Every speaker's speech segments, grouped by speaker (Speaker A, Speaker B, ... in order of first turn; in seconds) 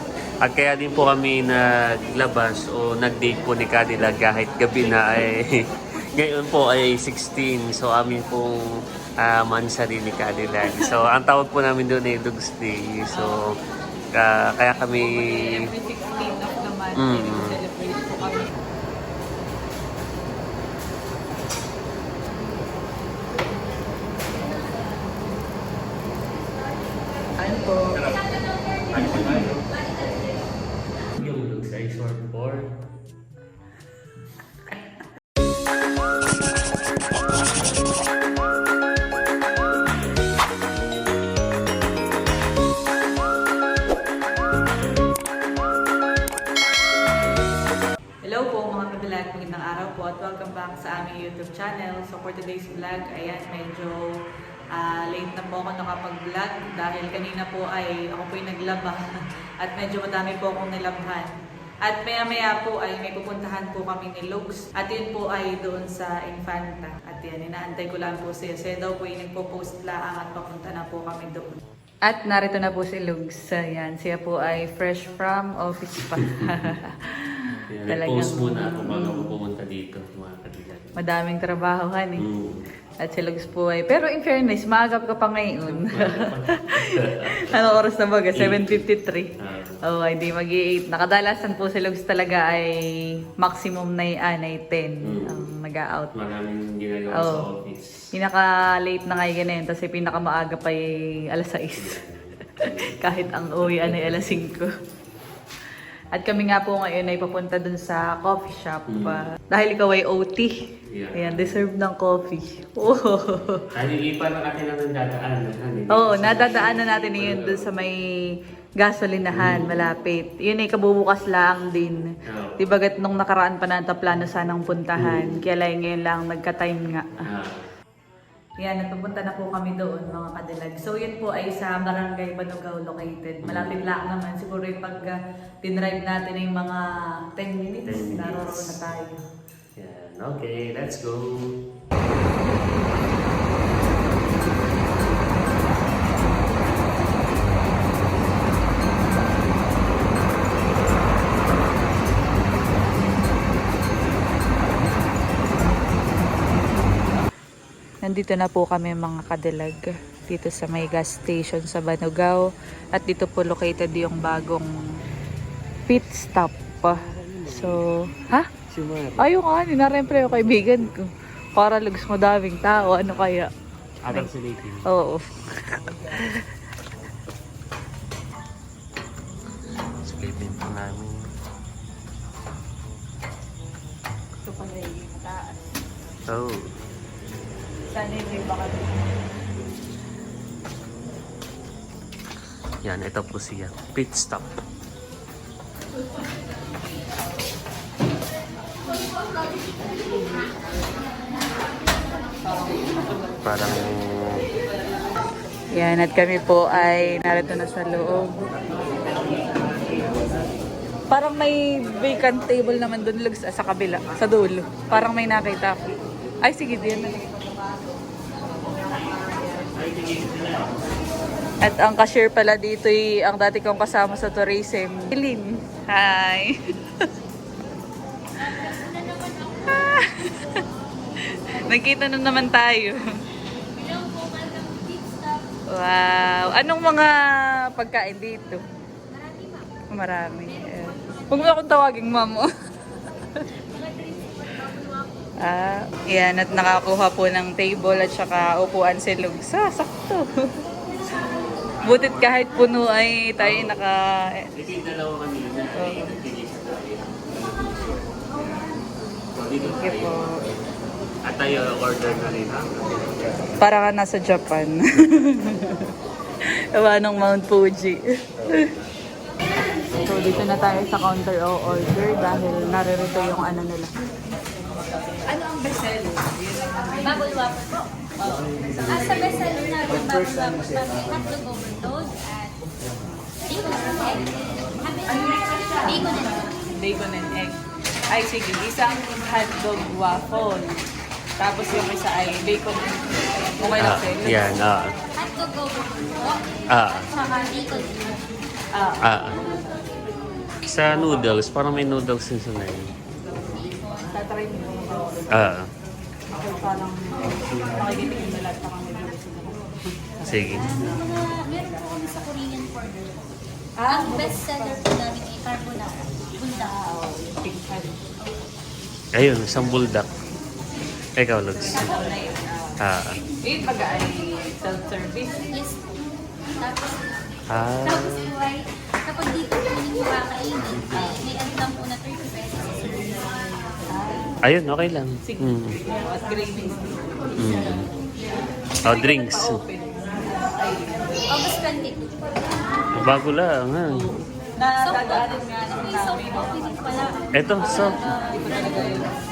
Speaker A: 0.4-8.6, 9.2-13.5, 14.2-15.6, 17.0-17.6, 28.9-29.6, 31.2-32.7, 76.3-76.7, 77.7-81.0, 82.2-82.6, 85.9-87.8, 88.3-88.8, 89.4-89.8, 95.0-95.3, 96.1-98.0, 101.8-104.4, 108.9-109.2, 110.9-111.6, 113.7-117.7, 119.3-119.7, 122.2-122.6, 125.0-125.4, 127.2-127.7, 133.4-133.8, 137.8-138.8, 139.8-141.6, 166.8-167.8, 168.7-169.3, 170.2-170.8, 174.0-174.9, 180.0-181.2, 186.3-186.6, 192.8-194.5, 203.4-204.4, 209.0-210.4, 218.8-219.0, 219.7-220.8, 251.0-252.6, 253.4-253.7, 254.6-258.7, 259.3-260.6, 261.2-263.6, 293.8-294.9, 296.7-297.1, 299.0-299.4, 300.6-302.9, 305.3-305.7, 310.2-310.7, 319.1-320.1, 321.2-322.0, 322.8-323.2, 327.5-328.3, 334.4-335.8, 337.4-337.9, 338.9-339.6, 342.9-344.0, 347.3-348.0
Speaker B: 14.9-18.5, 27.4-28.0, 29.1-29.5, 48.2-54.1, 54.7-61.3, 61.9-77.4, 77.9-79.3, 81.0-82.2, 83.0-89.3, 89.8-92.7, 93.4-96.1, 97.1-97.4, 98.1-102.0, 103.0-104.7, 106.1-110.5, 111.1-113.6, 115.9-118.0, 118.8-122.0, 122.6-127.2, 128.6-139.2, 158.0-164.7, 165.9-168.5, 169.2-173.5, 174.8-176.5, 184.4-185.8, 187.9-189.2, 202.4-203.4, 205.7-208.4, 211.1-215.8, 216.4-217.4, 221.6-227.1, 229.6-230.6, 231.6-233.0, 235.7-237.2, 237.7-238.6, 239.9-242.5, 245.4-250.2, 251.8-254.5, 255.8-256.1, 259.6-260.4, 263.6-265.8, 266.4-268.7, 270.0-273.9, 275.2-277.2, 278.2-278.9, 286.7-287.6, 288.1-290.7, 291.4-294.5, 298.7-299.9, 304.1-305.5, 306.3-311.0, 313.8-314.9, 316.5-318.0, 321.5-322.8, 323.4-325.5, 330.9-331.2, 333.9-334.4, 335.2-337.8, 338.9-341.3, 343.9-347.1, 347.7-349.1
Speaker C: 228.5-229.8, 233.7-235.4, 239.1-239.7, 240.7-241.3, 243.7-244.5, 277.0-277.9, 278.9-282.6, 283.5-286.5, 295.1-298.2, 303.6-304.0, 310.5-313.1, 313.9-316.7, 325.5-325.9, 326.6-327.3, 327.8-333.3, 341.3-342.2, 344.8-348.8